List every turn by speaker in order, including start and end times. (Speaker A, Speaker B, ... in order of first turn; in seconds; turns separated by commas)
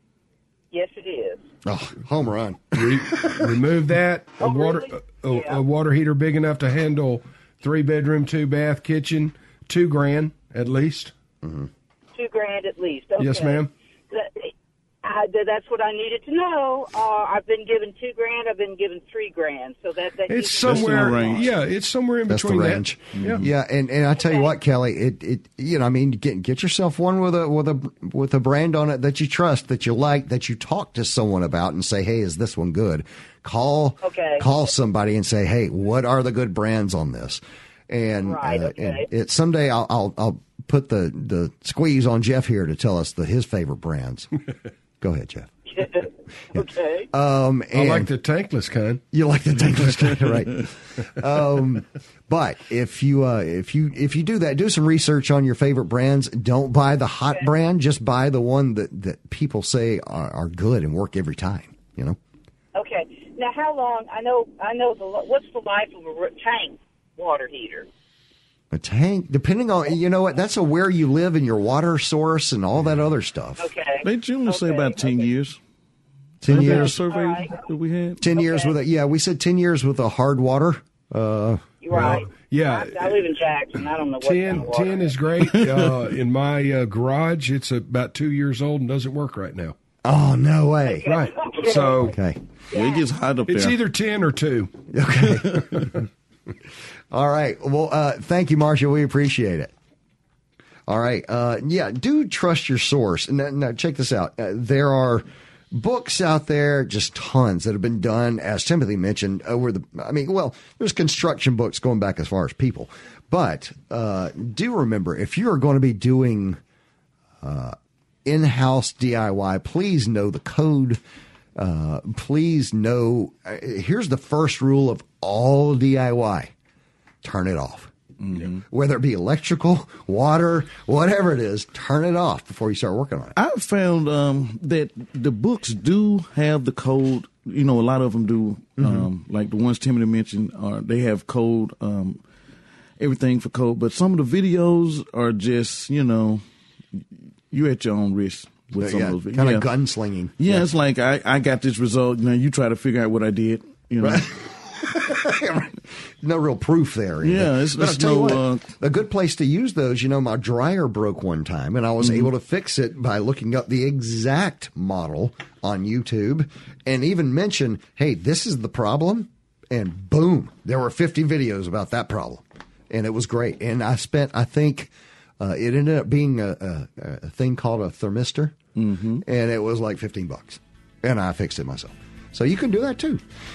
Speaker A: 0.7-1.5, Speaker B: 1.6-3.5, Speaker C: 2.7-11.1, Speaker A: 4.4-5.6, Speaker B: 11.4-11.7, Speaker A: 12.1-14.5, Speaker C: 13.2-13.7, Speaker A: 15.0-21.4, Speaker C: 20.3-23.4, Speaker D: 20.6-21.5, Speaker B: 22.3-44.3, Speaker D: 23.1-23.5, Speaker A: 24.1-24.6, Speaker A: 34.0-34.5, Speaker A: 38.2-39.1, Speaker B: 45.0-45.5, Speaker A: 45.6-47.1, Speaker B: 46.5-48.1, Speaker C: 47.7-49.0, Speaker B: 49.1-62.2, Speaker A: 62.8-67.9, Speaker B: 68.7-73.7, Speaker A: 73.6-75.3, Speaker D: 74.0-75.6, Speaker B: 76.4-76.9, Speaker D: 76.4-78.2, Speaker A: 76.7-77.7, Speaker B: 78.2-81.7, Speaker A: 78.4-78.7, Speaker A: 81.8-85.3, Speaker C: 81.9-83.2, Speaker C: 84.2-89.8, Speaker D: 85.4-86.0, Speaker B: 90.0-91.1, Speaker A: 90.8-92.1, Speaker C: 91.0-92.2, Speaker B: 92.1-92.4, Speaker A: 92.7-93.1, Speaker D: 92.7-93.8, Speaker C: 93.5-96.0, Speaker B: 94.9-95.9, Speaker B: 97.1-99.7, Speaker B: 100.9-116.6, Speaker B: 117.4-121.0, Speaker B: 121.6-126.5, Speaker B: 127.2-127.9, Speaker D: 128.2-128.6, Speaker B: 128.7-133.4, Speaker D: 133.4-142.2, Speaker B: 138.8-139.1, Speaker D: 143.0-146.4, Speaker D: 147.0-149.7, Speaker B: 148.8-150.7, Speaker D: 150.4-154.3, Speaker B: 154.0-178.6, Speaker D: 157.2-158.7, Speaker D: 162.0-162.3, Speaker D: 178.8-179.2, Speaker B: 179.2-183.2